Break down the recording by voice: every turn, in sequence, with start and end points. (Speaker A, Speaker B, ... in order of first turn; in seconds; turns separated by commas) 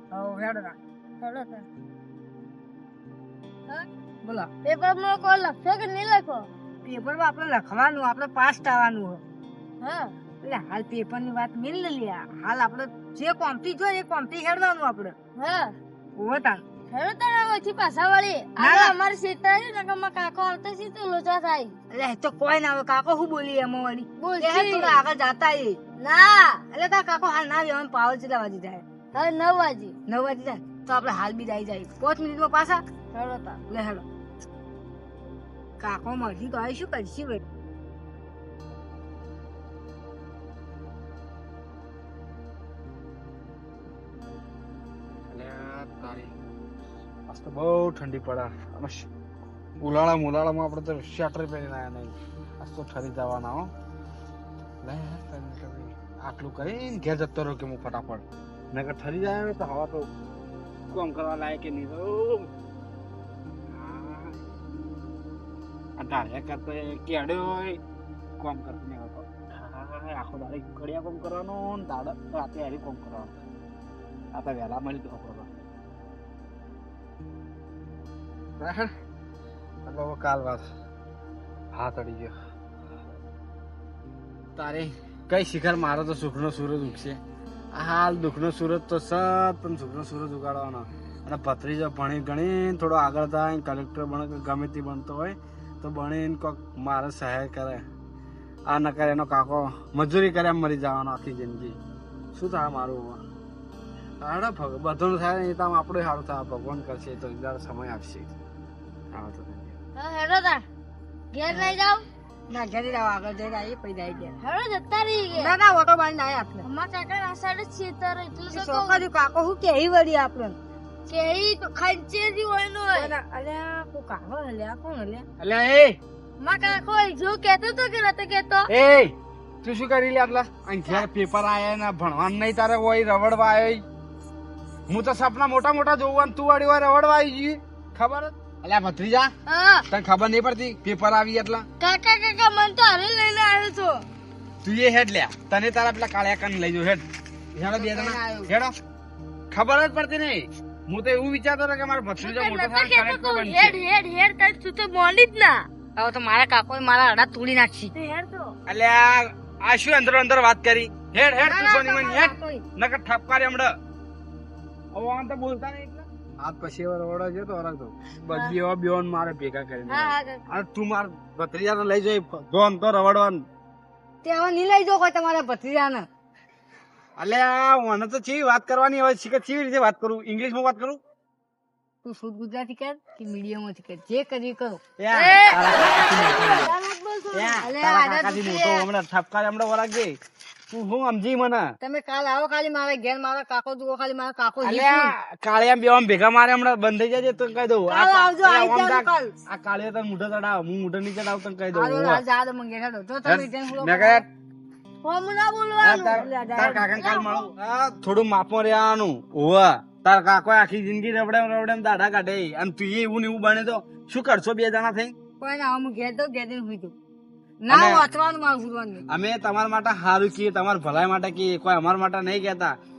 Speaker A: 0.1-0.8, Speaker B: 1.2-1.7, Speaker A: 4.2-4.5, Speaker B: 4.6-6.5, Speaker A: 6.8-9.2, Speaker B: 9.8-10.2, Speaker A: 10.4-15.1, Speaker B: 15.4-15.8, Speaker A: 16.2-16.6, Speaker B: 16.9-21.7, Speaker A: 18.6-18.9, Speaker A: 21.9-25.8, Speaker B: 24.2-25.0, Speaker B: 26.0-26.6, Speaker A: 26.7-28.8, Speaker B: 29.1-29.9, Speaker A: 30.1-32.8, Speaker B: 33.1-33.6, Speaker A: 33.7-34.0, Speaker A: 35.8-37.4, Speaker C: 45.3-46.3, Speaker C: 47.3-49.1, Speaker C: 49.8-53.7, Speaker C: 54.8-60.1, Speaker C: 60.9-62.5, Speaker C: 63.7-64.5, Speaker C: 66.0-67.8, Speaker C: 68.4-73.3, Speaker C: 74.3-75.5, Speaker C: 78.6-78.9, Speaker C: 79.8-80.7, Speaker C: 81.7-82.3, Speaker C: 84.6-87.2, Speaker C: 87.7-97.8, Speaker C: 98.7-101.8, Speaker C: 102.3-103.2, Speaker C: 104.2-108.3, Speaker C: 109.1-109.7, Speaker B: 110.0-110.6, Speaker B: 111.3-112.0, Speaker A: 111.5-111.8, Speaker A: 112.5-114.3, Speaker B: 114.4-115.5, Speaker A: 115.3-116.7, Speaker B: 116.6-119.0, Speaker A: 118.5-120.6, Speaker B: 121.1-123.1, Speaker A: 122.9-125.2, Speaker C: 125.4-126.0, Speaker B: 126.4-128.7, Speaker C: 128.7-133.8, Speaker C: 134.9-139.3, Speaker B: 139.5-139.8, Speaker C: 139.9-141.7, Speaker B: 141.8-144.1, Speaker C: 144.6-148.7, Speaker A: 147.7-148.5, Speaker C: 149.5-153.8, Speaker B: 152.2-155.7, Speaker A: 156.0-157.9, Speaker B: 157.9-158.5, Speaker C: 158.7-163.7, Speaker A: 161.4-162.7, Speaker C: 164.9-173.4, Speaker B: 169.9-170.4, Speaker A: 174.2-176.1, Speaker C: 177.2-181.0, Speaker A: 182.0-184.8, Speaker C: 185.0-186.7, Speaker B: 185.1-187.6, Speaker C: 187.3-190.2, Speaker A: 187.6-188.9, Speaker C: 190.7-191.7, Speaker A: 191.8-195.1, Speaker C: 194.6-202.2, Speaker A: 197.9-199.3, Speaker A: 201.7-204.2, Speaker C: 203.2-204.2, Speaker B: 205.0-207.5, Speaker C: 205.8-215.1, Speaker A: 206.1-207.1, Speaker A: 215.4-216.9, Speaker A: 217.6-219.0, Speaker C: 217.7-218.1, Speaker C: 219.1-222.7